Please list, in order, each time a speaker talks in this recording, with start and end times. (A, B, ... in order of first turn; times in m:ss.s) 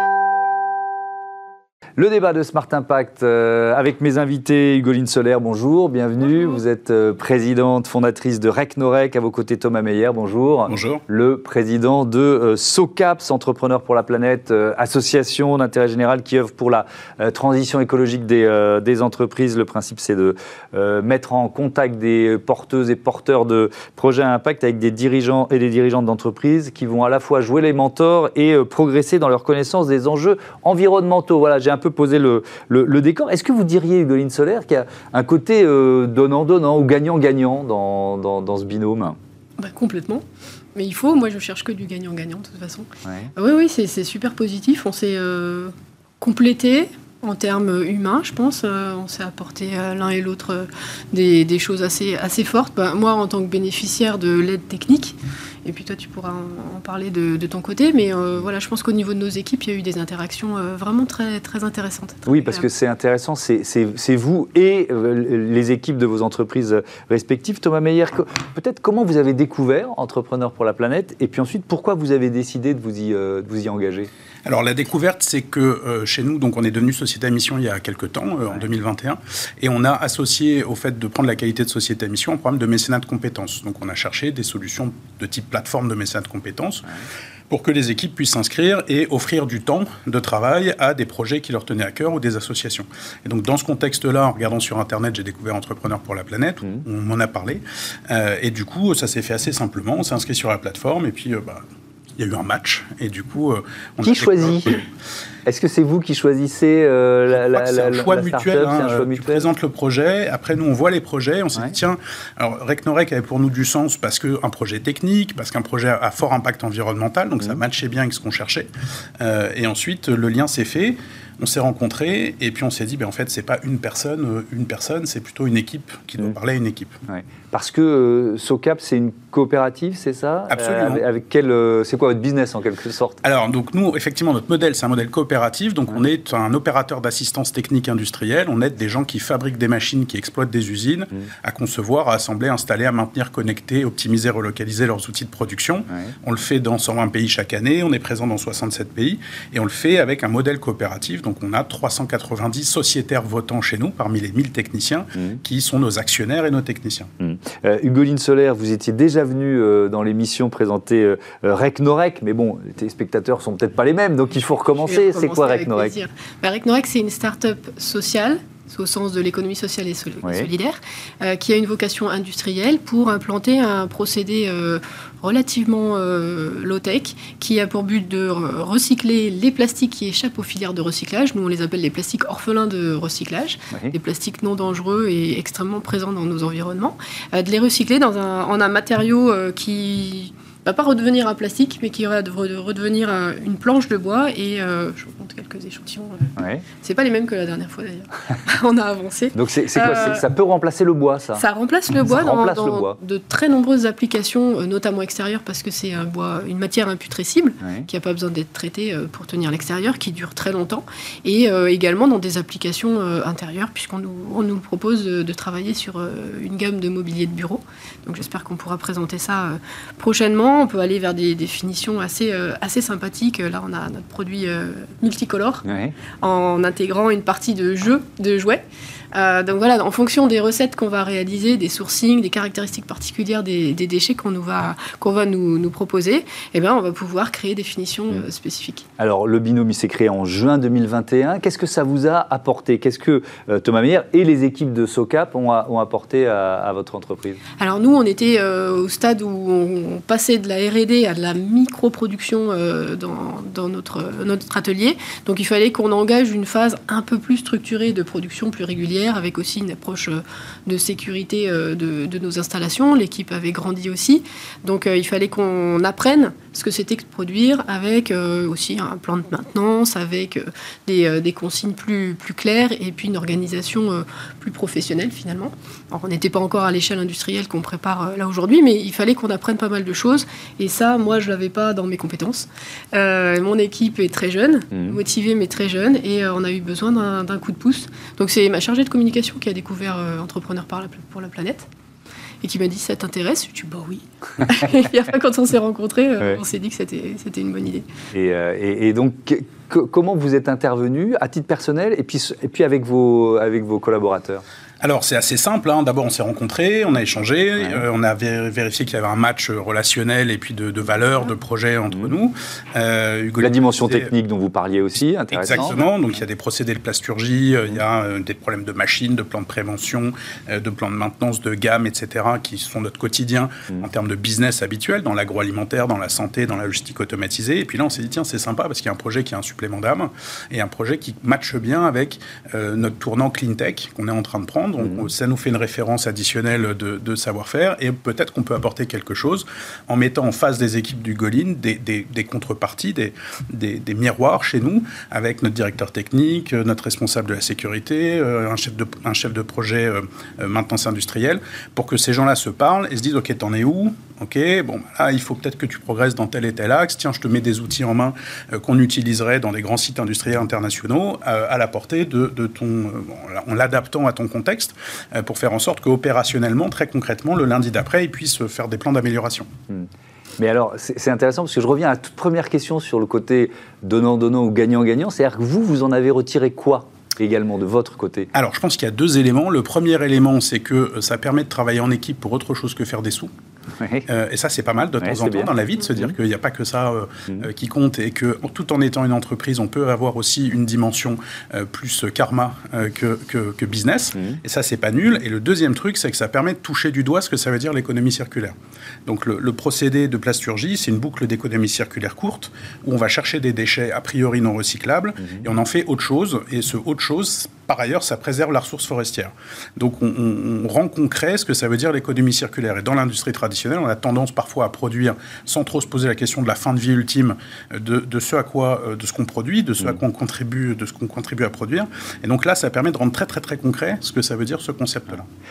0:02.0-0:39.2 A
0:10.7-0:11.0 B
0:39.6-0:40.2 C
0:40.7-1:02.6 C
0:43.0-0:43.3 A
1:02.3-1:14.1 A
1:14.4-1:26.9 B
1:27.5-1:41.6 B
1:42.2-1:44.8 B
1:44.0-1:44.8 A
1:45.4-1:49.5 A
1:47.5-1:58.7 B
1:59.2-2:07.0 B
2:07.1-2:13.2 A
2:10.5-2:11.0 B
2:13.2-2:37.1 B
2:37.2-2:46.0 A
2:44.8-3:20.2 C
2:50.2-2:50.5 A
3:03.7-3:04.0 A
3:16.4-3:16.6 A
3:19.3-3:21.4 A
3:21.4-3:45.6 C
3:22.0-3:23.0 A
3:27.6-3:27.9 A
3:45.6-3:45.9 A
3:46.2-3:58.8 C
3:59.0-4:07.4 A
4:07.6-4:51.7 C
4:44.7-4:45.0 A
4:52.4-4:57.9 C
4:58.1-5:04.4 A
5:04.8-5:14.1 B
5:07.6-5:07.8 A
5:13.4-5:15.8 A
5:15.3-6:09.5 B
5:34.8-5:35.0 A
6:09.7-6:18.3 A
6:18.3-6:23.3 B
6:23.8-6:24.0 A
6:24.1-6:38.5 B
6:25.0-6:26.1 A
6:39.0-7:05.3 B